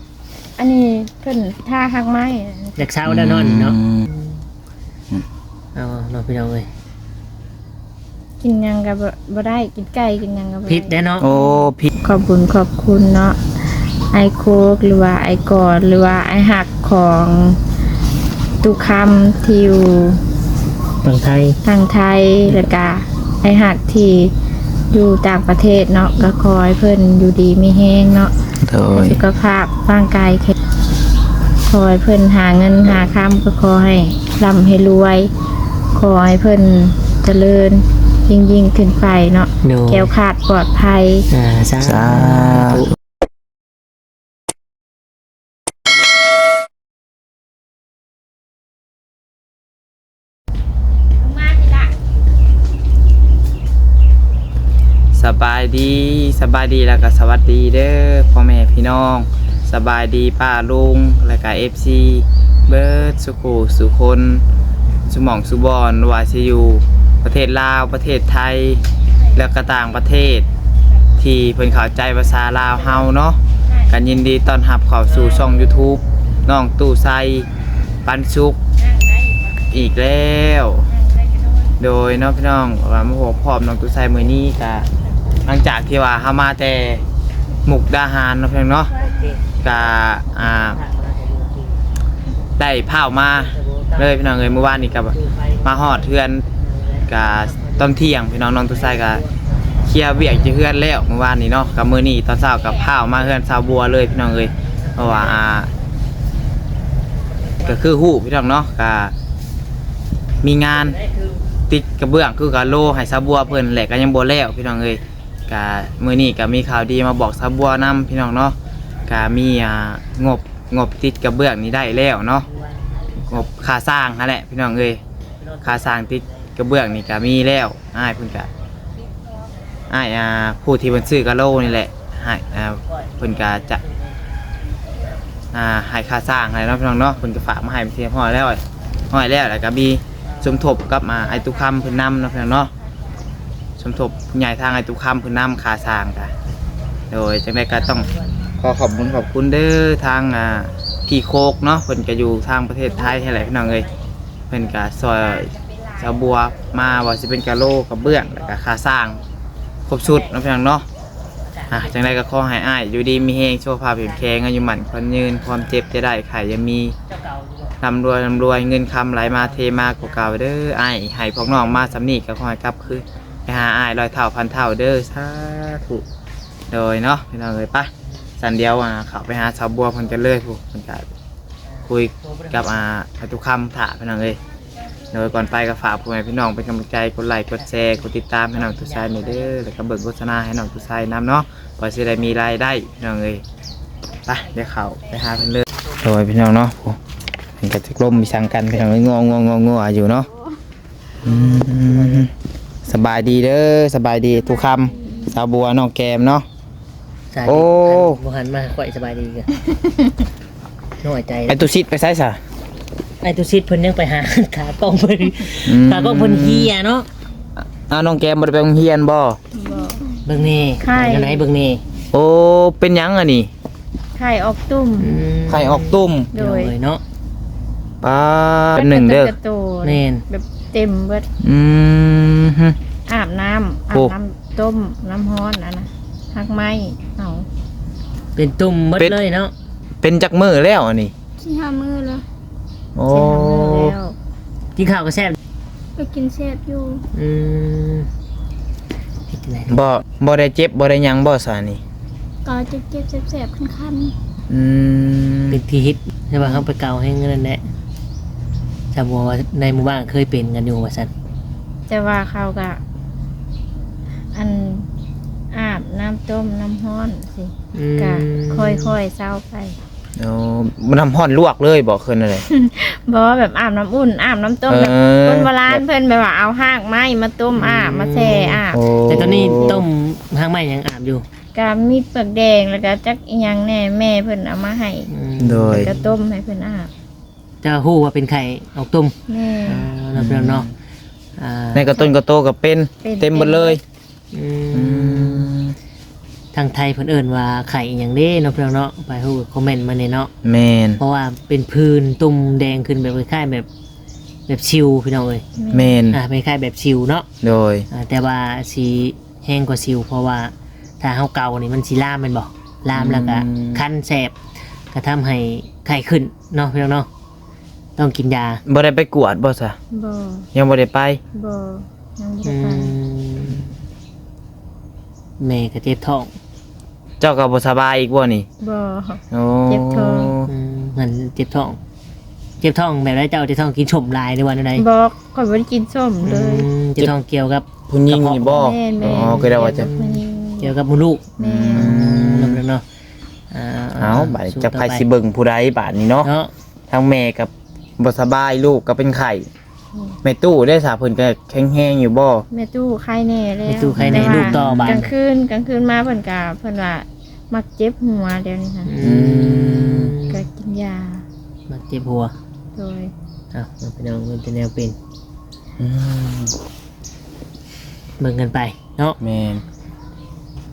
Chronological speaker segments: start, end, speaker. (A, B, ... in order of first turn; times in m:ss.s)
0:00.6-0:02.8 A
0:02.8-0:03.8 B
0:03.1-0:04.1 C
0:05.8-0:06.7 B
0:08.4-0:13.4 A
0:10.7-0:11.3 B
0:11.2-0:11.9 C
0:14.1-0:17.6 A
0:18.6-0:20.2 A
0:21.0-0:21.6 B
0:21.6-0:24.3 A
0:24.9-0:28.3 A
0:28.6-0:29.2 C
0:29.0-0:30.5 A
0:31.7-0:35.3 A
0:35.9-0:41.3 A
0:39.6-0:40.1 B
0:41.3-0:42.9 B
0:41.8-0:42.9 C
0:51.2-0:51.9 A
0:55.1-1:04.4 C
1:05.1-1:10.4 C
1:11.2-1:17.5 C
1:18.0-1:18.6 C
1:18.8-1:19.6 A
1:19.7-1:20.9 C
1:20.9-1:21.7 A
1:21.8-1:24.9 C
1:25.4-1:27.0 C
1:27.6-1:28.9 C
1:29.0-1:29.8 B
1:29.6-1:30.8 C
1:30.3-1:31.8 B
1:32.6-1:36.4 C
1:33.3-1:38.0 B
1:37.1-1:39.2 C
1:38.7-1:39.4 B
1:39.8-1:45.7 C
1:42.6-1:42.9 A
1:44.8-1:45.4 B
1:47.6-1:49.1 C
1:50.4-1:51.0 C
1:51.0-1:51.4 B
1:51.7-1:58.6 C
1:59.1-2:02.5 C
2:02.5-2:03.4 B
2:03.2-2:05.0 C
2:05.4-2:06.0 B
2:05.6-2:08.5 C
2:09.9-2:13.8 C
2:12.9-2:14.2 B
2:15.5-2:22.7 C
2:23.8-2:26.3 C
2:27.1-2:28.1 C
2:28.6-2:33.9 C
2:34.5-2:39.2 C
2:35.5-2:36.0 A
2:39.9-2:40.8 C
2:41.5-2:42.1 B
2:41.7-2:47.0 C
2:47.1-2:47.8 B
2:47.8-2:56.0 C
2:49.3-2:50.3 B
2:56.7-3:01.1 C
3:01.9-3:04.4 C
3:02.2-3:02.6 B
3:05.1-3:13.4 C
3:07.6-3:09.6 B
3:14.3-3:17.0 C
3:17.6-3:20.3 C
3:21.2-3:22.3 C
3:21.2-3:22.3 B
3:22.8-3:26.5 C
3:27.3-3:29.5 B
3:27.4-3:28.2 C
3:31.0-3:31.7 B
3:31.5-3:32.4 C
3:33.2-3:37.1 B
3:35.6-3:36.7 C
3:37.7-3:39.4 C
3:39.5-3:40.2 A
3:40.3-3:41.8 B
3:40.8-3:41.4 A
3:42.1-3:43.5 C
3:44.2-3:45.1 A
3:45.0-3:47.0 B
3:45.5-3:46.3 C
3:46.3-3:46.7 A
3:48.0-3:49.3 C
3:48.8-3:51.3 A
3:49.8-3:50.2 B
3:51.4-3:52.8 C
3:53.1-3:57.5 A
3:58.4-3:59.5 B
4:00.0-4:01.1 C
4:01.4-4:02.2 D
4:01.5-4:02.0 A
4:03.0-4:03.9 C
4:03.1-4:04.1 A
4:04.8-4:05.4 B
4:06.0-4:07.0 D
4:06.0-4:06.8 A
4:07.1-4:08.1 B
4:09.3-4:09.8 B
4:09.7-4:11.8 C
4:12.5-4:14.1 D
4:12.5-4:14.0 A
4:14.5-4:15.6 C
4:15.5-4:17.6 B
4:18.9-4:21.1 B
4:21.9-4:22.8 A
4:24.3-4:24.9 A
4:25.5-4:29.8 A
4:27.7-4:29.0 B
4:30.2-4:32.5 C
4:32.5-4:39.0 A
4:34.7-4:35.8 C
4:37.5-4:41.2 B
4:38.7-4:39.8 C
4:41.6-4:45.1 A
4:45.1-4:46.2 B
4:45.4-4:45.9 C
4:45.7-4:46.9 A
4:47.6-4:49.2 B
4:49.3-4:49.9 A
4:49.7-4:50.7 B
4:50.2-4:50.7 C
4:51.4-4:52.1 B
4:51.7-4:53.8 C
4:53.0-4:53.8 A
4:54.3-4:55.5 B
4:54.7-4:55.8 C
4:56.5-5:00.3 B
5:00.4-5:01.0 C
5:01.0-5:03.7 B
5:04.5-5:05.4 B
5:05.6-5:05.9 A
5:05.7-5:06.2 C
5:06.1-5:07.3 B
5:07.4-5:07.9 C
5:07.9-5:14.4 B
5:12.9-5:13.8 C
5:14.9-5:17.1 B
5:18.0-5:18.6 B
5:18.7-5:19.8 C
5:19.9-5:20.5 A
5:20.5-5:21.2 C
5:21.3-5:23.0 A
5:22.4-5:23.7 B
5:25.4-5:26.3 B
5:27.2-5:28.5 C
5:28.6-5:30.4 A
5:29.3-5:30.5 C
5:30.5-5:31.8 B
5:32.6-5:34.9 B
5:34.8-5:36.7 A
5:36.2-5:42.8 B
5:37.9-5:39.9 C
5:38.5-5:40.7 A
5:41.4-5:41.9 A
5:41.5-5:42.6 C
5:43.5-5:45.1 B
5:44.0-5:46.3 C
5:46.2-5:46.5 B
5:46.9-5:49.5 C
5:50.2-5:52.4 C
5:52.5-5:58.9 A
5:53.7-5:55.1 B
5:54.0-5:55.0 C
5:58.8-6:00.5 B
5:59.0-6:00.2 C
6:00.3-6:01.2 A
6:01.7-6:02.3 B
6:02.8-6:03.1 A
6:03.5-6:05.0 B
6:05.8-6:06.6 C
6:08.2-6:09.2 B
6:09.2-6:09.6 C